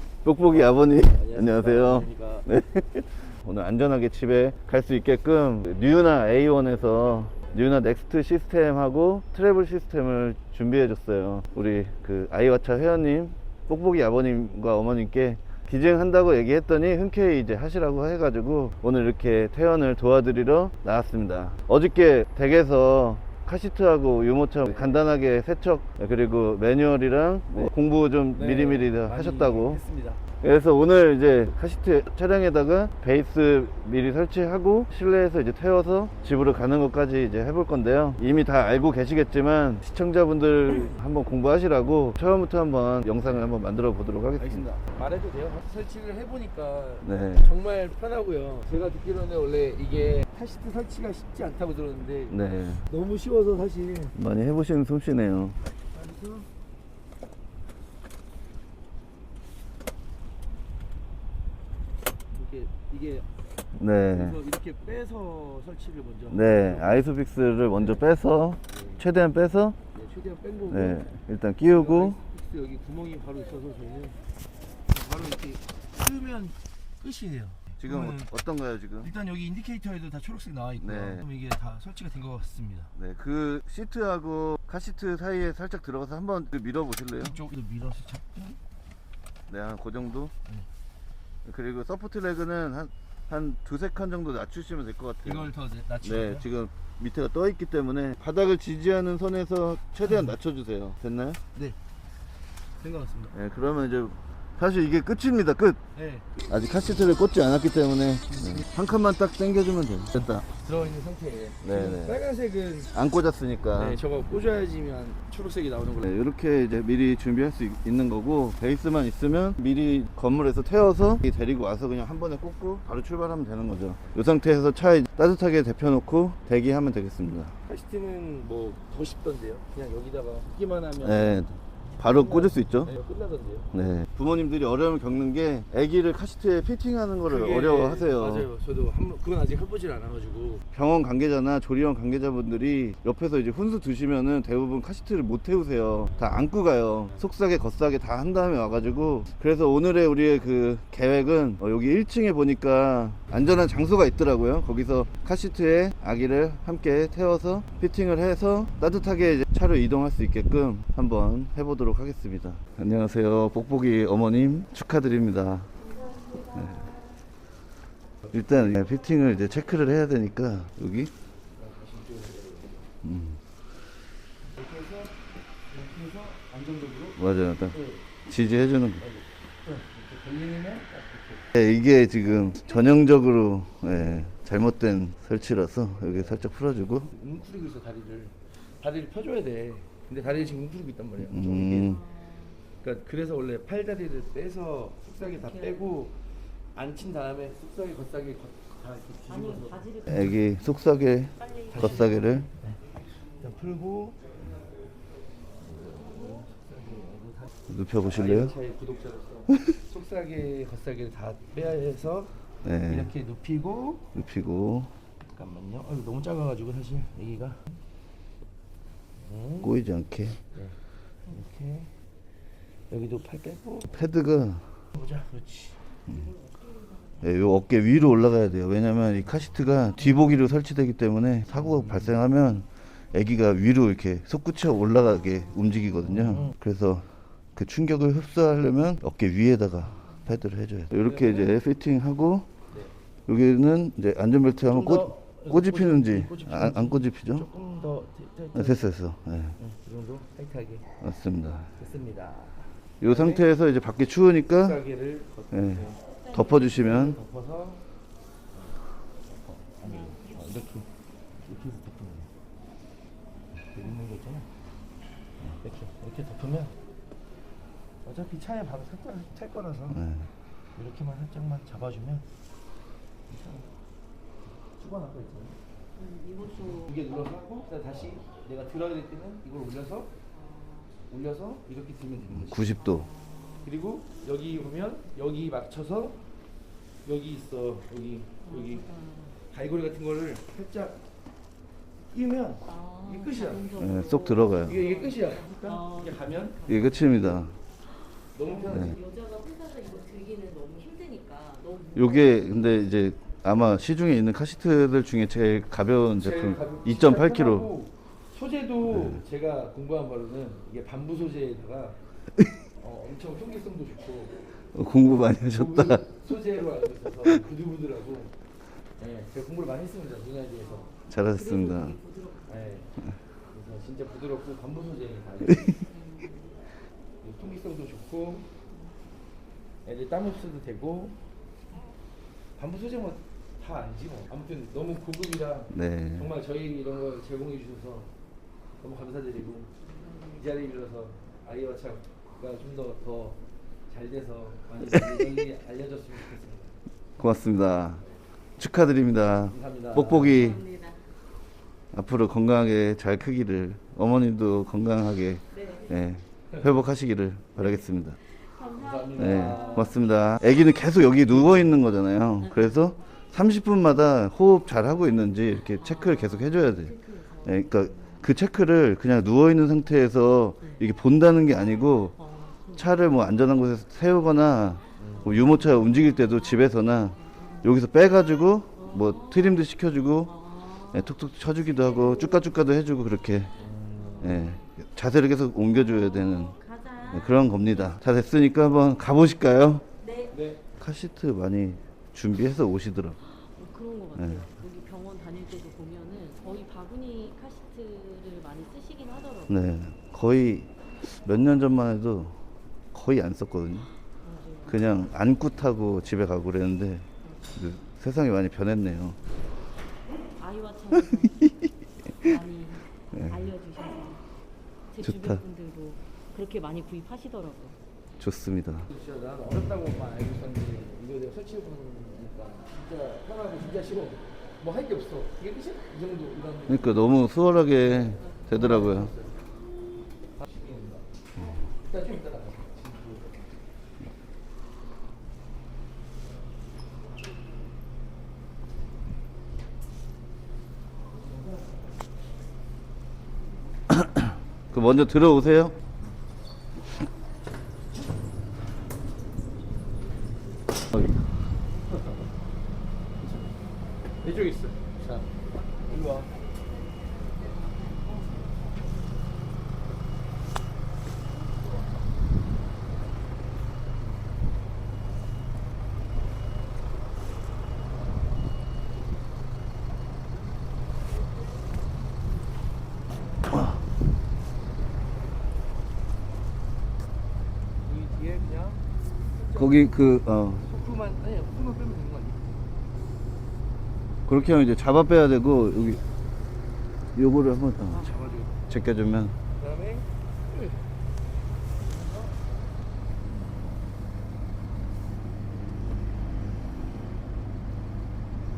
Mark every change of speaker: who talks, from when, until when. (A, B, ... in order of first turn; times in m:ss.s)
0:00.2-0:29.8 A
0:00.6-0:02.5 B
0:24.7-0:25.0 B
0:28.3-0:30.2 B
0:30.4-0:44.6 A
0:44.4-0:54.2 B
0:47.0-0:47.5 A
0:52.3-0:52.8 A
0:54.1-0:55.6 A
0:55.9-0:56.5 B
1:02.3-1:03.3 B
1:03.8-1:04.4 A
1:04.1-1:07.1 B
1:06.3-1:09.8 A
1:07.7-1:08.1 B
1:08.7-1:09.0 B
1:09.9-1:11.1 B
1:10.7-1:12.2 A
1:11.7-1:14.2 B
1:14.9-1:18.3 B
1:17.8-1:19.1 A
1:19.0-1:22.9 B
1:20.8-1:21.2 A
1:23.0-1:27.4 A
1:27.2-1:28.6 B
1:29.5-1:30.3 A
1:31.4-1:41.4 A
1:35.2-1:36.5 B
1:42.8-1:43.4 B
1:43.3-1:45.8 A
1:46.0-1:46.3 B
1:46.5-1:50.5 A
1:48.3-1:48.7 B
1:50.6-1:52.9 B
1:51.6-1:52.2 A
1:52.9-1:54.0 A
1:53.7-1:56.2 B
1:56.0-2:07.6 A
2:07.6-2:13.7 B
2:11.0-2:12.9 A
2:13.7-2:18.5 A
2:17.2-2:20.6 B
2:20.7-2:45.7 A
2:46.1-2:46.5 C
2:46.5-2:47.0 A
2:48.3-2:51.1 A
2:51.5-2:52.9 B
2:53.0-2:53.4 A
2:54.5-2:58.1 B
2:57.2-2:59.0 A
2:59.0-3:01.5 B
3:01.5-3:07.1 A
3:07.1-3:12.0 B
3:11.3-3:12.1 A
3:11.7-3:12.6 C
3:12.8-3:20.0 B
3:15.2-3:15.9 C
3:19.3-3:20.4 C
3:20.1-3:22.5 A
3:21.5-3:22.1 C
3:21.7-3:24.2 B
3:25.6-3:34.1 B
3:27.7-3:28.5 A
3:32.6-3:33.1 A
3:34.1-3:34.9 A
3:35.3-3:37.7 B
3:39.2-3:39.7 B
3:39.6-3:40.4 A
3:40.5-3:42.0 B
3:42.9-3:44.0 B
3:43.9-3:44.8 A
3:44.9-3:45.8 B
3:46.1-3:47.2 C
3:47.2-4:02.5 A
3:51.6-3:52.1 B
3:55.3-3:55.8 C
3:56.1-3:56.6 B
4:01.0-4:01.6 B
4:03.3-4:07.5 A
4:04.6-4:08.9 B
4:08.5-4:09.6 A
4:09.6-4:10.9 B
4:11.0-4:11.7 A
4:11.8-4:13.5 B
4:13.0-4:14.8 A
4:14.5-4:17.8 B
4:15.5-4:17.2 A
4:16.2-4:16.6 C
4:19.3-4:20.9 B
4:19.9-4:20.2 C
4:21.4-4:22.3 B
4:23.7-4:24.5 B
4:25.6-4:26.8 B
4:28.0-4:30.1 B
4:29.9-4:30.3 A
4:30.8-4:32.3 B
4:33.3-4:33.7 B
4:34.8-4:35.6 B
4:36.0-4:37.0 C
4:36.6-4:40.1 B
4:40.3-4:40.9 C
4:41.1-4:42.6 B
4:42.3-4:43.1 A
4:42.8-4:43.7 C
4:43.6-4:46.2 B
4:47.0-4:48.8 B
4:48.4-4:49.4 C
4:49.4-4:51.0 B
4:52.1-4:53.7 B
4:52.7-4:57.4 C
4:53.8-4:54.8 A
4:54.6-4:56.6 B
4:56.7-4:57.6 A
4:58.3-4:59.0 B
4:58.6-5:02.8 C
5:02.0-5:07.7 A
5:06.2-5:12.0 B
5:12.8-5:14.4 B
5:14.7-5:16.0 A
5:15.3-5:18.3 B
5:19.0-5:20.9 B
5:20.7-5:22.6 C
5:21.1-5:22.0 A
5:22.5-5:25.8 B
5:25.8-5:26.6 C
5:27.2-5:28.5 B
5:29.8-5:31.2 B
5:32.6-5:38.1 B
5:35.7-5:36.3 A
5:38.8-5:39.7 B
5:39.8-5:40.4 C
5:40.4-5:46.8 B
5:47.2-5:48.0 A
5:48.6-5:50.7 A
5:49.5-5:50.5 B
5:50.2-5:51.1 C
5:51.9-5:58.2 A
5:55.5-5:56.0 C
5:58.3-6:00.1 C
5:58.8-6:00.0 B
5:59.2-6:12.2 A
6:01.4-6:01.7 B
6:02.4-6:02.9 C
6:05.7-6:08.2 C
6:12.2-6:12.9 C
6:12.8-6:20.4 A
6:15.0-6:15.4 B
6:16.1-6:16.6 C
6:17.2-6:17.7 C
6:18.7-6:19.7 C
6:20.3-6:21.2 C
6:20.9-6:23.5 A
6:21.7-6:22.5 C
6:23.6-6:24.6 B
6:24.1-6:24.6 C
6:24.2-6:26.5 A
6:25.8-6:28.0 C
6:27.1-6:29.8 A
6:30.0-6:30.4 C
6:30.3-6:30.6 B
6:30.8-6:33.2 A
6:33.4-6:39.6 C
6:34.2-6:34.5 A
6:39.5-6:42.4 A
6:42.9-6:43.9 A
6:44.2-6:44.9 C
6:44.7-6:49.2 A
6:50.4-6:51.5 C
6:52.1-6:54.2 C
6:54.9-6:57.8 C
6:55.0-6:55.4 A
6:58.2-6:58.9 A
6:58.9-7:07.2 B
7:06.7-7:09.1 A
7:07.8-7:09.4 B
7:10.4-7:11.1 B
7:11.7-7:13.5 B
7:21.1-7:21.9 B
7:23.9-7:25.8 A
7:31.9-7:32.2 B
7:33.2-7:33.5 B
7:34.2-7:36.4 B
7:35.9-7:38.7 C
7:57.8-7:59.9 B
7:59.6-8:00.6 A
8:00.6-8:02.6 B
8:04.3-8:06.0 A
8:07.2-8:08.1 A
8:07.9-8:08.6 B
8:08.7-8:09.4 A
8:09.6-8:10.8 B
8:11.8-8:12.7 B